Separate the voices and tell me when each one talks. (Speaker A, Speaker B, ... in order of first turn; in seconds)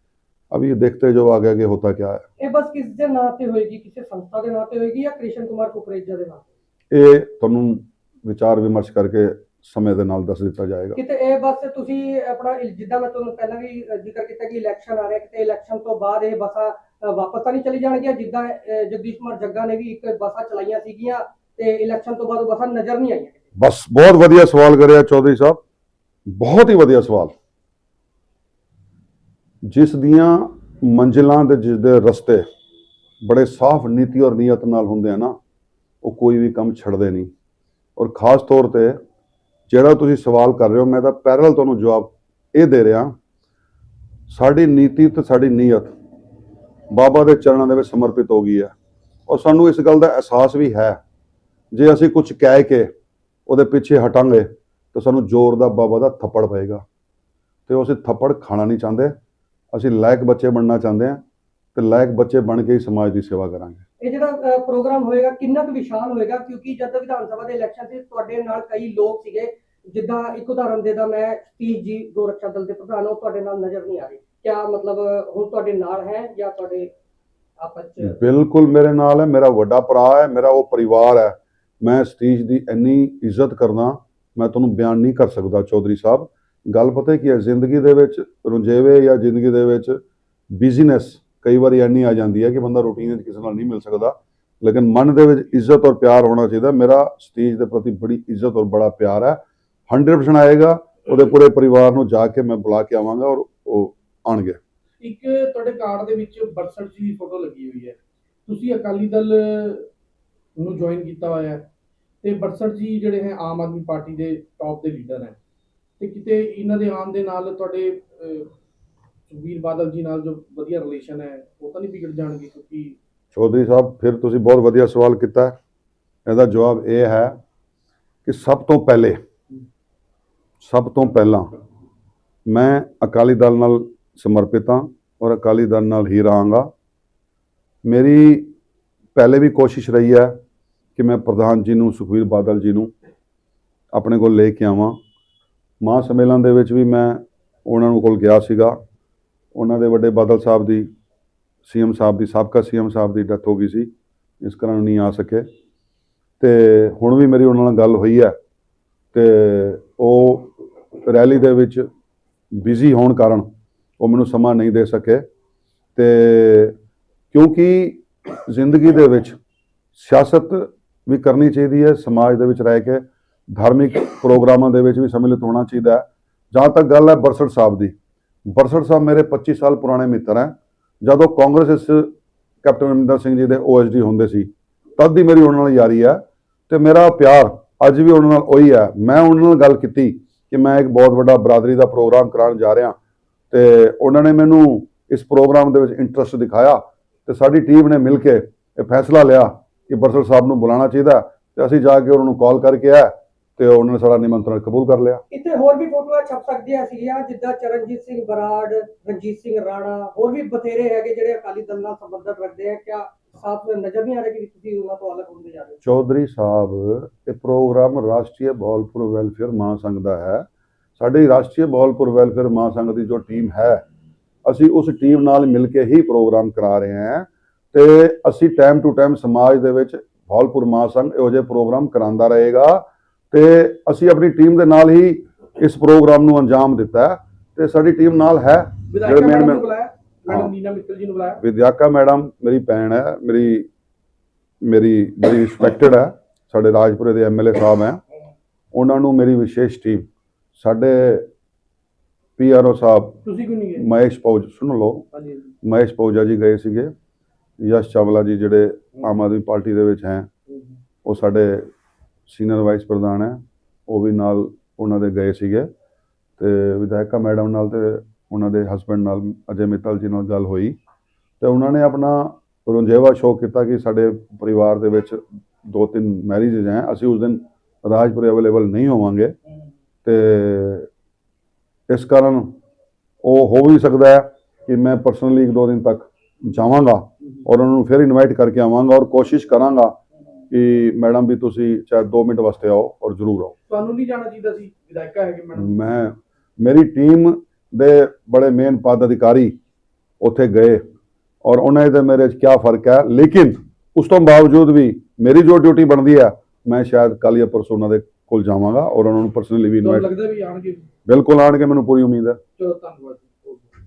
Speaker A: 0.5-2.2, 6.9-11.0, 23.6-25.6, 26.3-27.3, 29.6-32.4, 33.2-35.3, 36.0-37.3, 38.0-39.0, 39.7-43.1, 44.3-45.9, 46.9-48.7, 49.3-51.0, 51.7-52.9, 53.5-56.8, 57.7-59.1, 59.7-61.2, 61.7-63.8, 78.0-90.0, 90.5-104.6, 123.3-125.5, 126.2-127.4, 128.2-129.2, 130.6-131.5, 132.5-136.7, 137.8-138.5, 139.1-140.3, 140.9-142.9, 143.9-145.0, 145.8-148.8, 149.5-150.9, 151.6-153.9, 154.4-155.4, 156.4-158.3, 159.1-160.5, 161.0-161.9, 162.5-163.5, 164.0-165.2, 165.9-166.8, 167.3-169.3, 169.9-177.9, 178.5-182.1, 182.6-193.0, 193.5-205.2, 215.8-220.4, 221.0-223.8, 224.4-239.6, 241.4-243.7, 244.6-248.0, 248.7-251.3, 252.4-253.2, 253.8-255.0, 255.6-256.9, 257.6-260.3, 261.0-261.7, 262.3-265.7, 266.4-270.8, 271.4-279.4, 280.0-280.9, 281.9-282.5, 283.2-289.9, 290.5-293.5, 295.6-299.5, 300.2-300.8, 301.4-310.1, 311.1-312.4
Speaker B: 2.4-6.4, 10.9-23.3, 64.0-76.9, 77.6-78.2, 205.3-215.8
Speaker C: 105.0-109.9, 110.5-111.6, 112.2-115.3, 116.0-118.5, 119.3-123.0, 238.9-241.4, 253.2-253.9, 255.1-255.5, 293.7-295.7, 309.8-310.8, 312.6-313.7